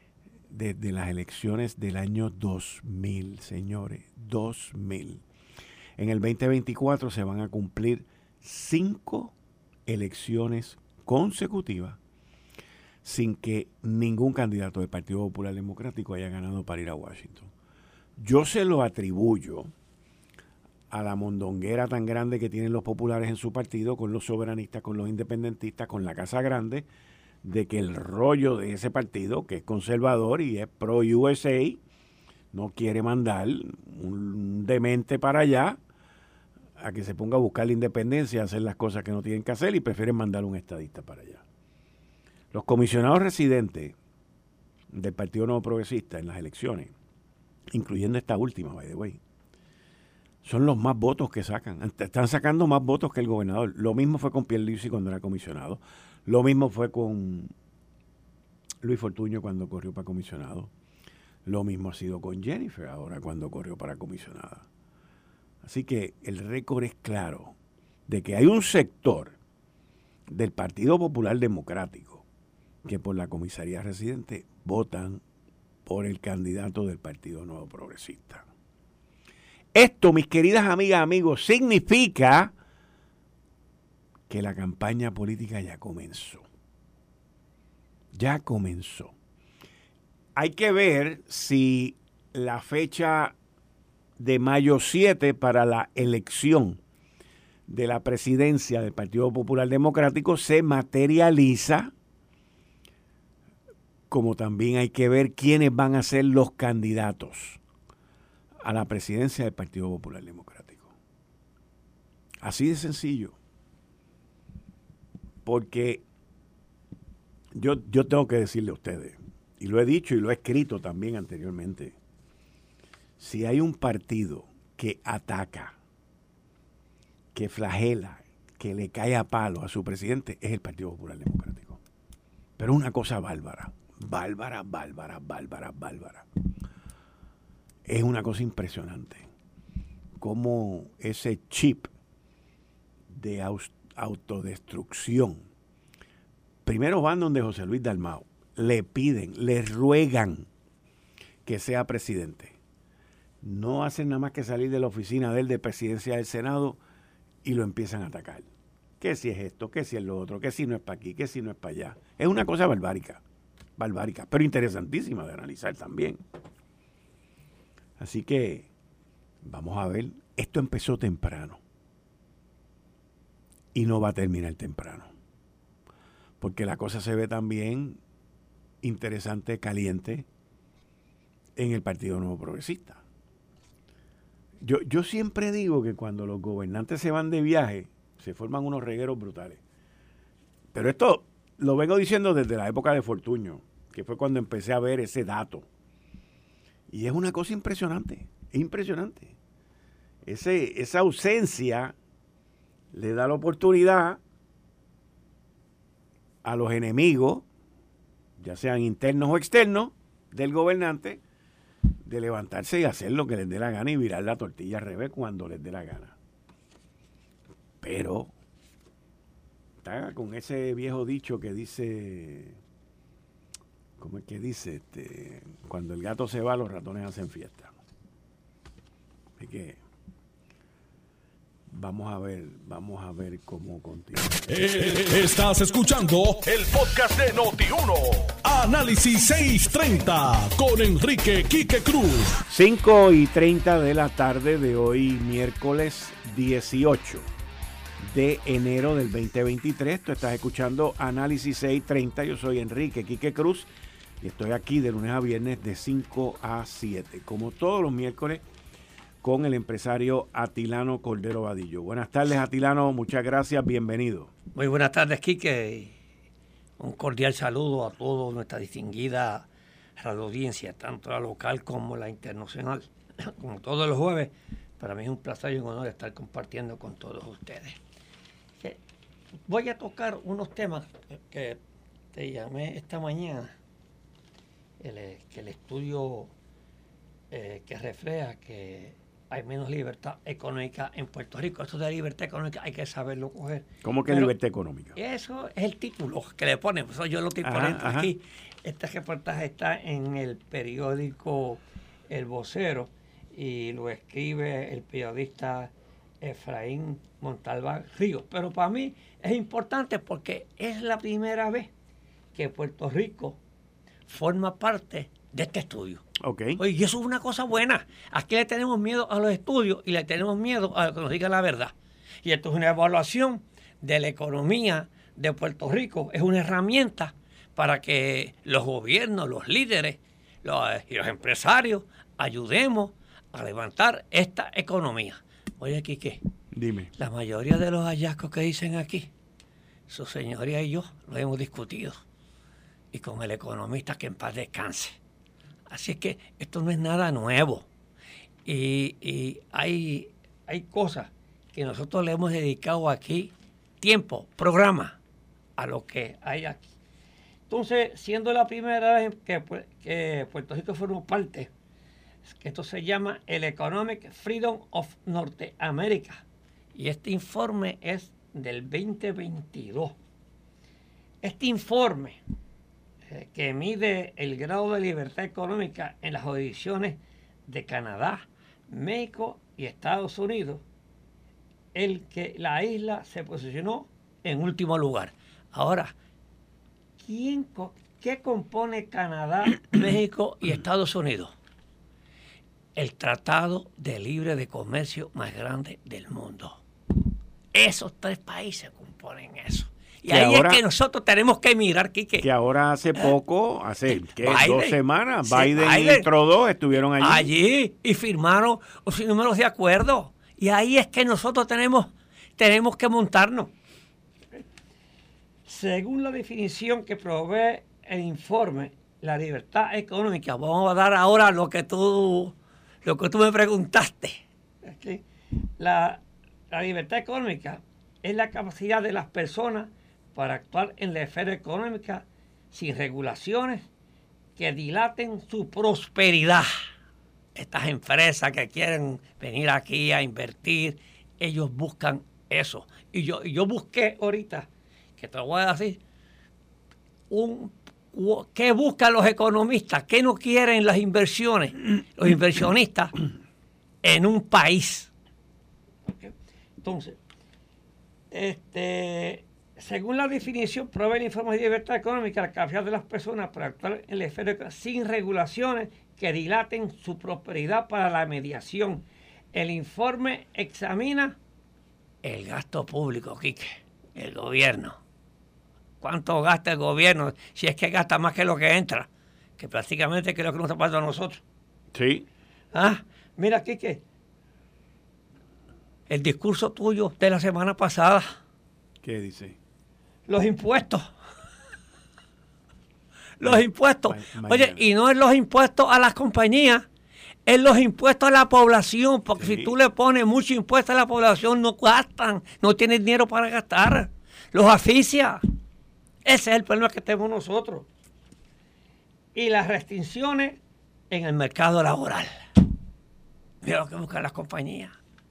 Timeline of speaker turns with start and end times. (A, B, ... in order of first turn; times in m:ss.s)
0:00.5-0:05.2 A
0:06.0-0:09.3 A
0:09.9-0:12.0 A
0:13.0-0:17.5 A
0:18.2-0:19.7 A
0:20.9-0:26.8 A
0:27.4-0:31.8 A
0:32.5-0:35.8 A
0:36.8-0:41.4 A
0:42.5-0:43.9 A
0:44.9-0:46.9 A
0:47.7-0:49.2 A
0:50.4-0:57.5 A
0:58.8-1:00.7 A
1:01.4-1:04.7 A
1:05.6-1:07.5 A
1:08.1-1:09.4 A
1:10.3-1:12.2 A
1:12.8-1:15.2 A
1:15.8-1:18.4 A
1:19.7-1:22.5 A
1:24.3-1:26.4 A
1:28.1-1:29.1 A
1:30.3-1:33.3 A
1:34.2-1:36.8 A
1:37.7-1:41.9 A
1:44.1-1:47.6 A
1:48.6-1:50.9 A
1:52.4-1:53.4 A
1:55.4-1:56.0 A
1:57.5-2:02.0 A
2:03.2-2:05.8 A
2:07.3-2:11.8 A
2:12.6-2:16.3 A
2:17.8-2:19.3 A
2:20.2-2:21.9 A
2:23.1-2:25.5 A
2:26.6-2:30.5 A
2:31.4-2:32.5 A
2:33.4-2:36.8 A
2:37.4-2:38.5 A
2:39.0-2:43.2 A
2:43.8-2:46.2 A
2:48.0-2:48.7 A
2:49.4-2:51.6 A
2:53.7-2:55.1 A
2:56.4-2:58.0 A
2:58.8-3:00.2 A
3:01.6-3:03.0 A
3:04.6-3:09.6 A
3:10.7-3:15.6 A
3:16.9-3:19.4 A
3:20.2-3:21.9 A
3:22.9-3:24.2 A
3:26.4-3:27.4 A
3:28.4-3:31.2 A
3:32.0-3:36.2 A
3:37.8-3:38.3 A
3:39.8-3:42.6 A
3:44.0-3:47.7 A
3:49.4-3:49.8 A
3:51.7-3:54.5 A
3:54.5-4:02.4 B
4:02.5-4:07.3 A
4:08.0-4:13.7 A
4:14.2-4:18.4 A
4:19.2-4:24.3 A
4:24.5-4:25.9 C
4:26.8-4:37.8 C
4:39.5-4:41.6 C
4:42.1-4:43.5 C
4:44.8-4:46.3 C
4:47.3-4:54.3 C
4:53.8-4:55.0 A
4:55.0-5:11.7 C
4:57.4-4:58.1 A
5:12.3-5:13.4 C
5:14.1-5:16.0 C
5:16.2-5:16.6 A
5:16.6-5:36.2 C
5:36.5-5:36.9 A
5:37.0-5:39.1 C
5:39.9-5:42.0 C
5:42.9-5:45.0 C
5:45.7-5:47.6 C
5:48.4-5:55.0 C
5:55.6-5:56.6 C
5:57.5-6:01.5 C
6:02.2-6:06.2 C
6:06.7-6:09.9 C
6:11.2-6:12.2 C
6:13.1-6:20.6 C
6:21.7-6:25.9 C
6:27.0-6:31.3 C
6:32.7-6:36.6 C
6:37.5-6:42.3 C
6:40.0-6:40.6 A
6:42.2-6:47.3 A
6:44.1-6:46.1 C
6:47.0-6:53.5 C
6:55.4-7:05.0 C
7:05.6-7:13.6 C
7:14.4-7:16.5 C
7:17.3-7:25.8 C
7:27.1-7:33.0 C
7:33.8-7:34.9 C
7:35.8-7:37.0 C
7:38.1-7:51.2 C
7:52.0-7:54.8 C
7:55.8-8:01.2 C
8:01.7-8:02.1 A
8:02.5-8:03.8 C
8:05.9-8:08.1 C
8:08.8-8:09.4 A
8:10.1-8:10.8 C
8:13.2-8:16.6 C
8:13.2-8:14.6 A
8:17.2-8:25.2 C
8:19.2-8:19.5 A
8:26.0-8:27.7 C
8:29.1-8:30.4 C
8:30.9-8:32.2 C
8:33.4-8:34.7 C